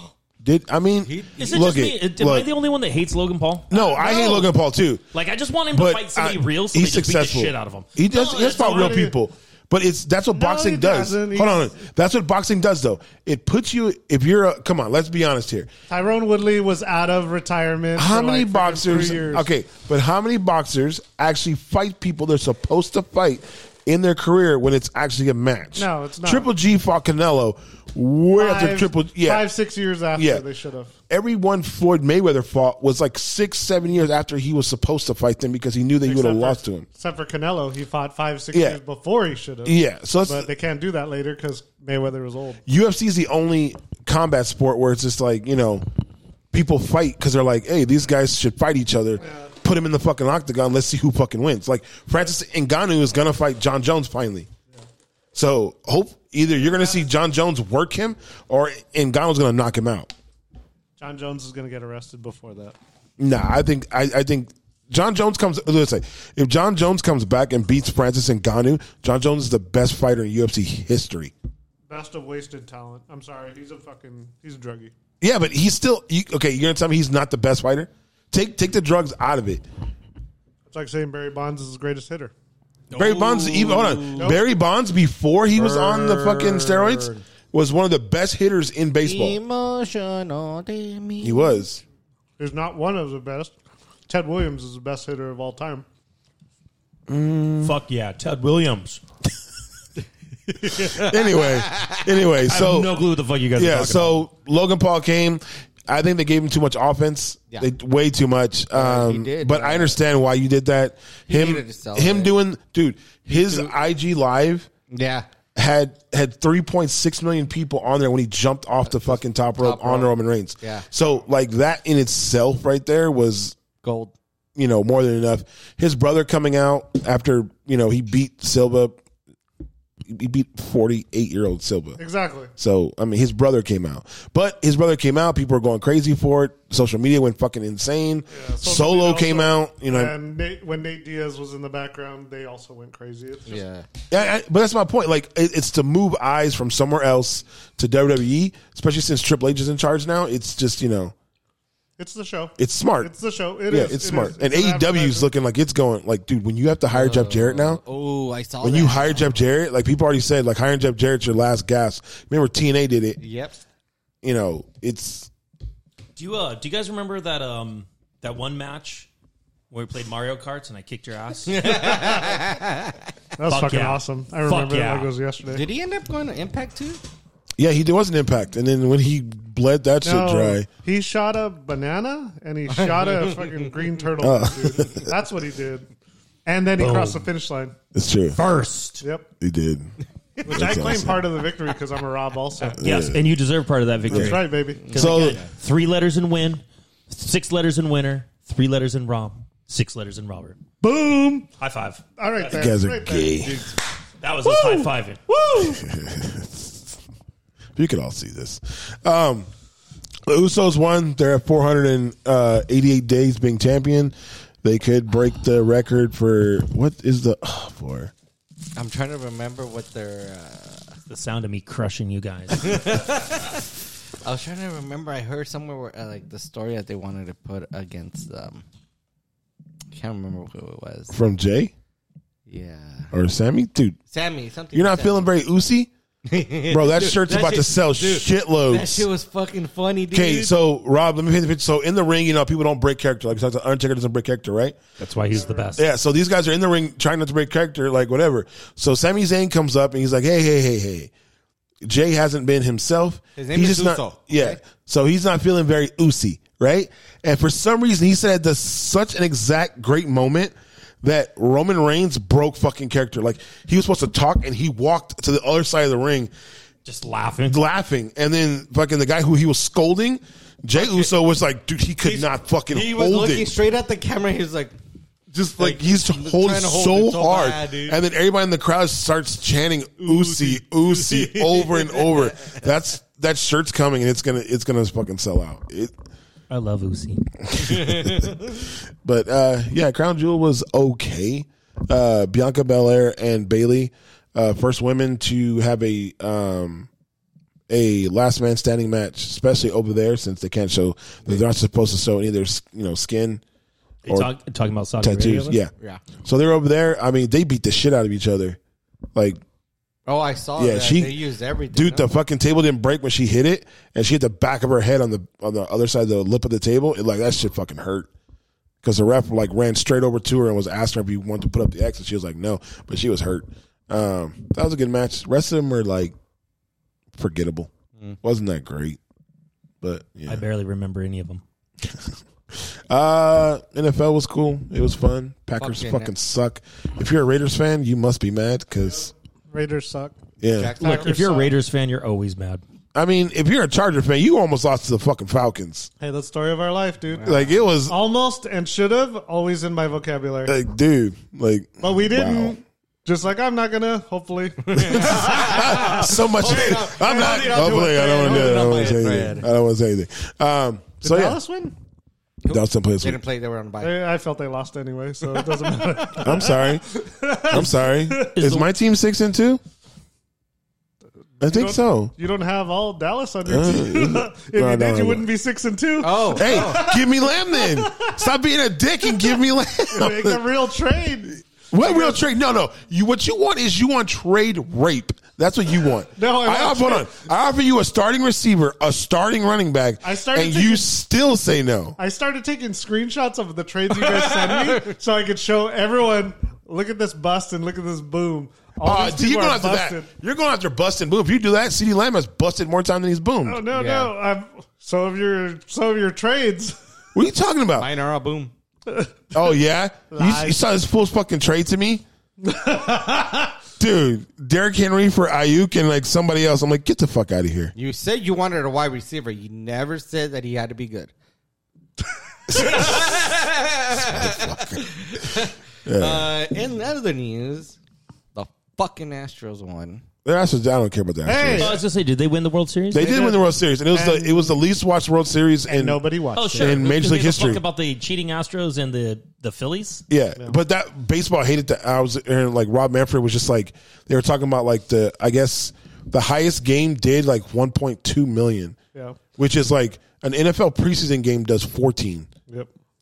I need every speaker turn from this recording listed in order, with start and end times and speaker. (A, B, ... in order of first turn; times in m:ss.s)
0:00.4-0:02.5 A
0:01.0-0:01.7 B
0:01.4-0:04.4 C
0:03.7-0:05.0 A
0:03.7-0:04.4 D
0:05.1-0:09.1 C
0:05.7-0:15.7 A
0:08.2-0:09.1 D
0:10.3-0:11.7 D
0:15.9-0:19.5 D
0:18.0-0:29.5 A
0:25.8-0:26.5 D
0:28.4-0:30.9 D
0:30.1-0:30.4 A
0:31.1-0:36.8 A
0:36.0-0:42.6 D
0:38.5-0:38.8 A
0:39.6-0:40.5 A
0:42.7-0:45.8 A
0:46.5-0:54.5 A
0:49.2-0:49.5 D
0:55.3-1:00.1 A
0:56.6-0:57.0 D
1:01.0-1:02.8 D
1:03.2-1:11.3 A
1:11.9-1:14.9 D
1:15.2-1:19.6 A
1:20.7-1:22.3 D
1:22.9-1:29.4 A
1:22.9-1:24.0 C
1:24.2-1:24.4 D
1:25.6-1:26.6 B
1:29.0-1:31.6 B
1:31.2-1:31.8 A
1:32.4-1:33.5 D
1:34.1-1:35.8 D
1:37.1-1:37.8 A
1:37.6-1:39.0 C
1:40.7-1:43.0 A
1:40.8-1:42.0 B
1:42.4-1:44.2 C
1:43.5-1:54.7 A
1:48.7-1:50.0 B
1:51.3-1:52.3 B
1:53.3-1:53.7 B
1:54.9-1:55.3 B
1:55.5-2:03.6 A
1:58.9-2:00.8 B
2:03.8-2:04.1 B
2:04.6-2:09.0 A
2:10.0-2:12.0 A
2:12.0-2:12.5 D
2:12.6-2:20.1 A
2:18.3-2:23.6 D
2:23.5-2:23.9 B
2:24.1-2:31.1 A
2:32.0-2:35.3 D
2:32.6-2:33.1 A
2:33.7-2:37.8 A
2:36.9-2:39.4 B
2:38.6-2:43.2 A
2:43.2-2:43.6 B
2:44.2-2:45.3 A
2:46.2-2:49.1 C
2:49.7-2:52.1 C
2:51.5-2:53.0 B
2:53.4-2:55.6 D
2:53.5-2:55.1 C
2:55.5-2:57.0 B
2:57.6-3:00.7 A
3:00.0-3:05.9 D
3:02.7-3:03.7 B
3:04.2-3:05.1 A
3:06.4-3:07.7 D
3:06.8-3:07.2 C
3:07.9-3:08.4 A
3:08.3-3:09.0 C
3:09.0-3:09.3 D
3:09.4-3:09.9 A
3:10.4-3:12.8 D
3:10.5-3:11.3 A
3:12.8-3:13.2 A
3:12.8-3:20.6 C
3:14.0-3:14.4 A
3:14.1-3:14.8 D
3:14.8-3:15.5 B
3:14.9-3:15.4 A
3:20.8-3:21.5 D
3:21.6-3:22.7 C
3:22.2-3:23.5 D
3:22.5-3:23.7 A
3:24.2-3:25.2 C
3:24.4-3:25.8 D
3:25.6-3:27.0 A
3:27.8-3:29.5 A
3:30.2-3:38.1 A
3:38.7-3:40.9 B
3:41.1-3:42.9 C
3:42.6-3:43.6 B
3:44.2-3:48.6 B
3:49.9-3:51.1 B
3:51.1-3:51.7 A
3:52.5-3:53.1 B
3:53.1-3:54.0 A
3:54.1-3:55.3 B
3:54.7-3:55.9 A
3:56.3-4:00.5 B
3:56.7-3:59.1 A
4:00.1-4:04.8 A
4:05.0-4:05.9 C
4:05.3-4:05.7 D
4:05.7-4:11.1 A
4:11.8-4:26.3 A
4:13.4-4:14.6 B
4:26.8-4:27.6 C
4:27.4-4:33.6 A
4:30.7-4:31.1 B
4:32.0-4:34.8 B
4:35.3-4:45.9 A
4:35.6-4:38.0 B
4:40.0-4:42.6 B
4:46.5-4:47.3 C
4:47.5-4:48.5 A
4:47.7-4:48.5 B
4:49.0-4:56.9 A
4:57.7-5:03.4 A
5:04.0-5:05.6 C
5:05.0-5:08.6 A
5:05.8-5:06.0 B
5:09.1-5:09.4 A
5:10.0-5:12.1 B
5:10.6-5:18.1 A
5:18.8-5:26.1 A
5:27.2-5:27.7 A
5:28.2-5:29.0 A
5:29.8-5:30.4 A
5:30.3-5:31.4 C
5:31.8-5:39.1 A
5:35.6-5:36.1 B
5:39.5-5:40.1 D
5:40.4-5:40.7 A
5:40.5-5:41.2 B
5:40.8-5:41.5 D
5:40.8-5:42.6 C
5:42.9-5:45.9 A
5:46.0-5:50.6 D
5:47.1-5:47.6 B
5:47.2-5:48.0 A
5:50.4-5:52.6 A
5:51.8-5:56.0 D
5:54.7-5:59.5 B
5:54.8-6:01.4 A
5:56.8-5:58.9 D
6:01.0-6:01.7 D
6:02.4-6:04.0 B
6:02.5-6:03.2 A
6:03.8-6:08.3 D
6:05.3-6:05.9 B
6:06.1-6:06.8 A
6:07.4-6:09.6 A
6:08.3-6:08.7 C
6:11.4-6:12.1 A
6:11.4-6:18.1 D
6:13.4-6:15.3 A
6:16.0-6:16.9 B
6:16.3-6:20.4 A
6:19.9-6:22.2 D
6:21.7-6:32.0 A
6:26.2-6:27.2 D
6:30.0-6:30.8 D
6:32.0-6:40.1 D
6:34.1-6:34.8 B
6:38.8-6:43.6 A
6:43.4-6:46.8 D
6:43.7-6:44.1 B
6:47.1-6:47.9 A
6:47.8-6:48.5 B
6:48.9-6:49.1 D
6:49.3-6:52.0 A
6:50.1-6:50.6 D
6:52.4-6:53.5 D
6:53.8-6:57.7 A
6:57.7-7:01.1 B
7:02.5-7:03.1 A
7:02.5-7:07.8 B
7:03.9-7:04.8 A
7:05.8-7:06.3 A
7:08.3-7:10.0 B
7:10.2-7:11.8 A
7:11.2-7:11.8 D
7:11.6-7:13.1 C
7:12.9-7:17.6 A
7:13.0-7:14.6 D
7:15.7-7:16.9 D
7:16.4-7:20.0 C
7:20.1-7:28.8 A
7:29.4-7:32.3 A